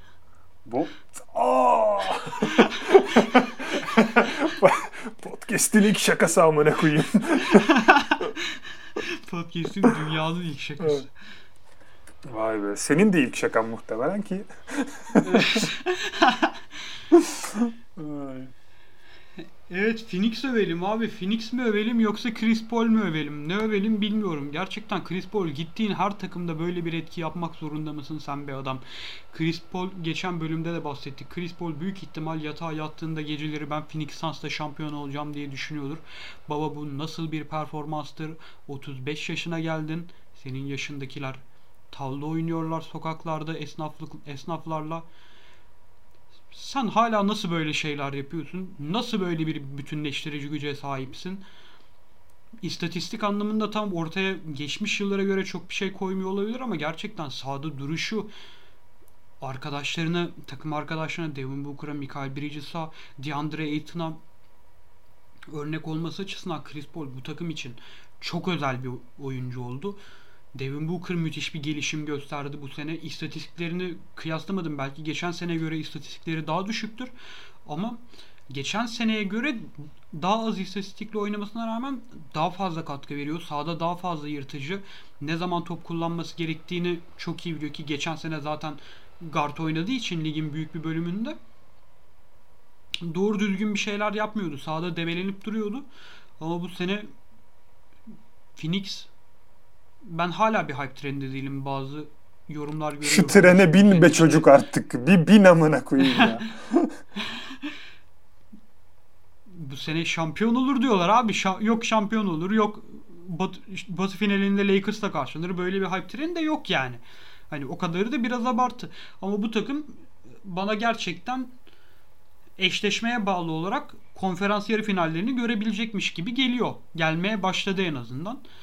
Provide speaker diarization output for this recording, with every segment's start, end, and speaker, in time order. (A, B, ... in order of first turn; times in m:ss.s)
0:00.6-0:07.7 A
0:02.4-0:03.2 B
0:07.5-0:11.1 B
0:12.3-0:15.7 A
0:15.2-0:16.9 B
0:17.1-0:18.5 A
0:19.7-0:45.0 B
0:46.5-0:51.4 B
0:52.6-0:58.3 B
0:59.4-1:04.2 B
1:05.5-1:10.0 B
1:10.6-1:17.1 B
1:17.6-1:31.4 B
1:33.0-1:35.9 B
1:36.4-1:37.1 B
1:38.6-1:39.1 B
1:40.0-1:44.5 B
1:43.0-1:47.0 A
1:46.0-1:46.4 B
1:47.3-1:47.7 B
1:49.5-2:01.5 B
2:02.6-2:08.4 B